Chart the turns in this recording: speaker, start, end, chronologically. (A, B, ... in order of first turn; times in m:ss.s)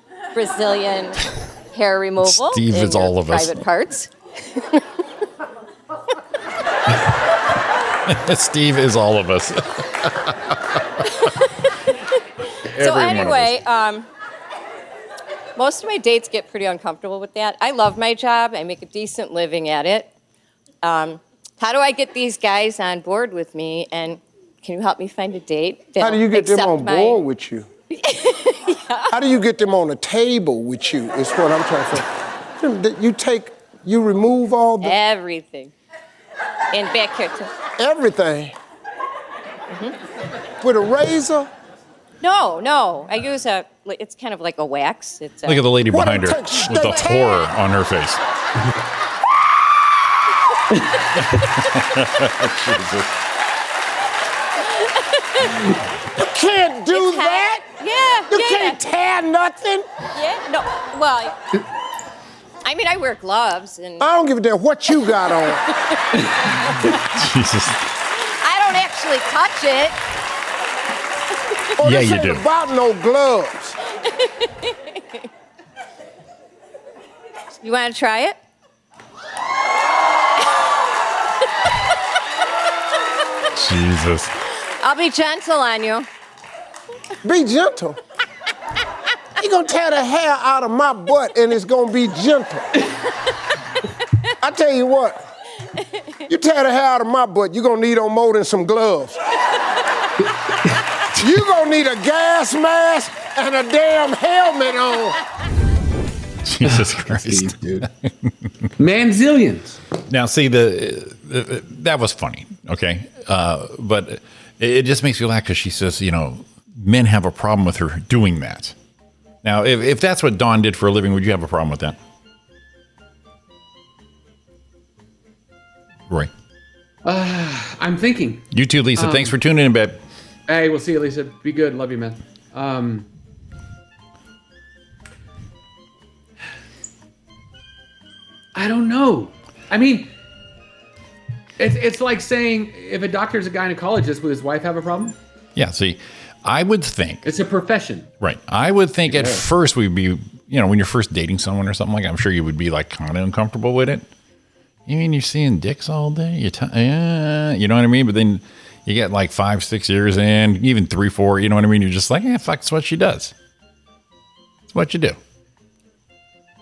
0:00.3-0:04.8 A
0:02.2-0:03.6 B
0:08.0-0:11.0 B
0:11.2-0:11.5 A
0:12.7-0:13.6 B
0:12.7-0:14.1 A
0:15.6-0:20.1 A
0:20.8-0:27.2 A
0:26.0-0:27.7 C
0:27.9-0:29.2 A
0:29.1-0:35.0 C
0:34.8-0:35.7 A
0:36.7-0:37.5 A
0:37.8-0:38.6 C
0:40.6-0:41.5 C
0:42.2-0:45.7 A
0:45.4-0:48.2 B
0:45.8-0:47.5 C
0:51.3-0:53.2 B
0:54.7-0:55.6 A
0:56.1-0:57.6 C
0:56.9-0:58.8 A
0:58.3-0:59.9 C
1:00.1-1:01.4 A
1:02.6-1:04.0 A
1:04.0-1:05.6 C
1:06.9-1:07.9 B
1:08.4-1:10.0 A
1:11.8-1:13.8 C
1:11.8-1:12.4 B
1:14.2-1:15.2 A
1:17.6-1:18.4 A
1:23.5-1:24.3 B
1:24.8-1:26.1 A
1:27.2-1:28.0 C
1:29.4-1:32.8 C
1:34.4-1:35.2 C
1:36.3-1:39.2 C
1:41.1-1:45.2 C
1:46.4-1:48.3 B
1:46.6-1:47.9 D
1:48.8-1:49.8 D
1:50.1-1:58.7 B
1:59.4-2:02.0 B
2:07.0-2:09.4 D
2:08.5-2:10.0 B
2:10.5-2:13.1 D
2:18.5-2:20.1 D
2:21.6-2:25.2 D
2:25.6-2:27.3 B
2:27.2-2:28.1 D
2:28.2-2:34.1 B
2:29.1-2:29.4 D
2:34.9-2:43.3 B
2:44.7-2:45.2 B